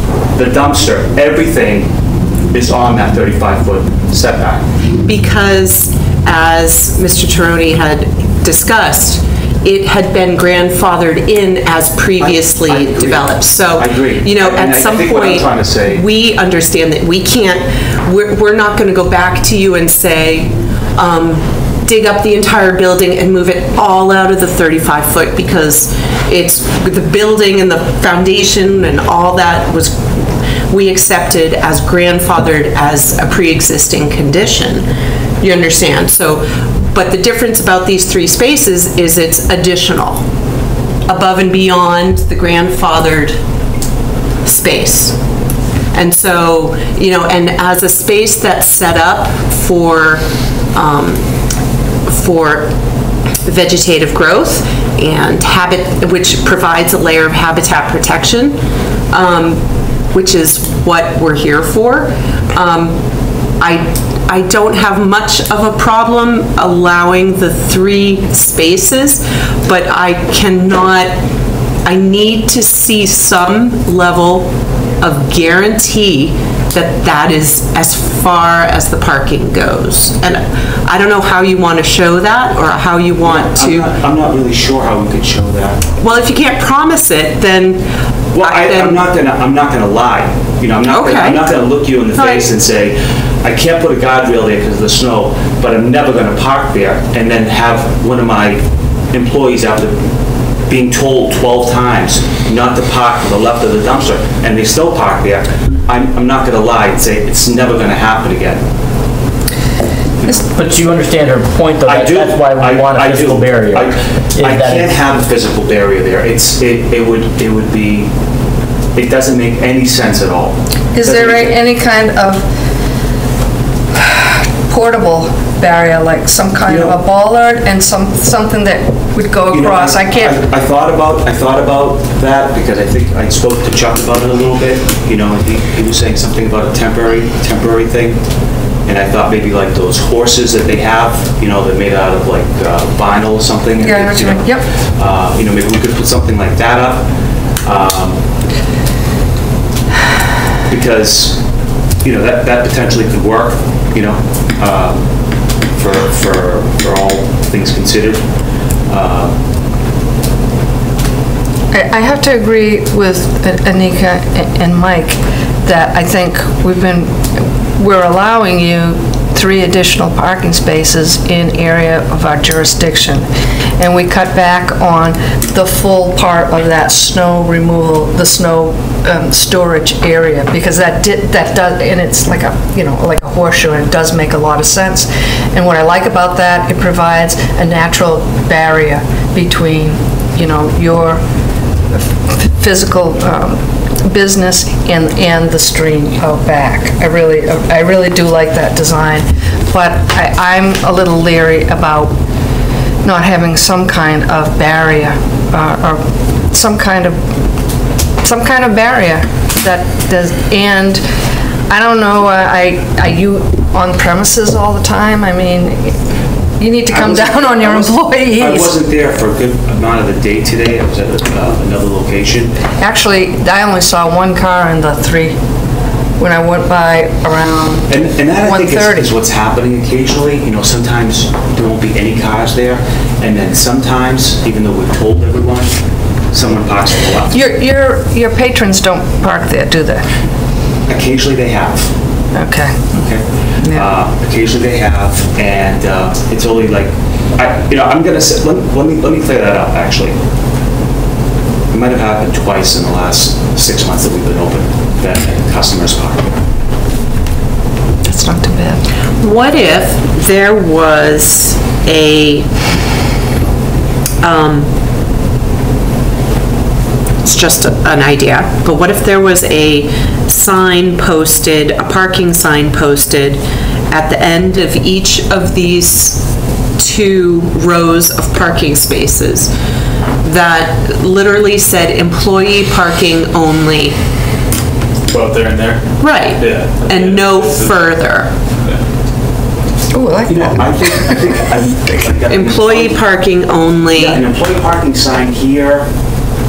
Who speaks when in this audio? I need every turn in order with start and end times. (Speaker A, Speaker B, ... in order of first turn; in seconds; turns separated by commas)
Speaker A: 0.3-2.0, Speaker A: 2.5-4.7, Speaker B: 5.0-30.1, Speaker A: 12.2-16.0, Speaker B: 30.7-34.9, Speaker B: 35.4-40.2, Speaker B: 41.1-43.4, Speaker B: 44.4-45.2, Speaker B: 45.9-51.3, Speaker B: 52.1-52.7, Speaker B: 53.5-58.6, Speaker B: 59.1-63.0, Speaker B: 63.5-71.2, Speaker B: 71.8-83.9, Speaker A: 83.2-85.8, Speaker B: 86.0-87.9, Speaker A: 88.3-108.6, Speaker B: 88.4-89.0, Speaker B: 90.9-91.5, Speaker B: 92.2-92.5, Speaker A: 110.2-110.5, Speaker C: 110.5-115.0, Speaker A: 111.8-118.1, Speaker A: 118.9-121.6, Speaker D: 120.9-122.5, Speaker D: 124.0-130.4, Speaker A: 126.7-127.0, Speaker A: 129.5-138.2, Speaker A: 138.8-147.1, Speaker D: 143.8-144.7, Speaker A: 147.6-148.2, Speaker A: 150.7-159.3, Speaker D: 161.7-191.2, Speaker D: 191.9-202.2, Speaker D: 203.0-207.3, Speaker D: 208.2-211.0, Speaker D: 211.7-216.0, Speaker D: 216.6-218.7, Speaker A: 216.9-222.6, Speaker D: 222.8-225.4, Speaker D: 226.2-229.1, Speaker A: 227.9-237.4, Speaker D: 237.3-240.1, Speaker A: 240.9-241.9, Speaker D: 242.3-243.0, Speaker A: 242.9-250.2, Speaker D: 243.6-243.9, Speaker A: 251.7-256.4, Speaker D: 258.0-258.8, Speaker B: 259.2-262.5, Speaker B: 264.2-264.7, Speaker B: 267.2-279.5, Speaker B: 280.2-284.0, Speaker E: 285.1-287.9, Speaker B: 286.0-288.4, Speaker D: 289.9-291.4, Speaker A: 290.3-293.0, Speaker B: 292.3-294.2, Speaker A: 293.9-295.9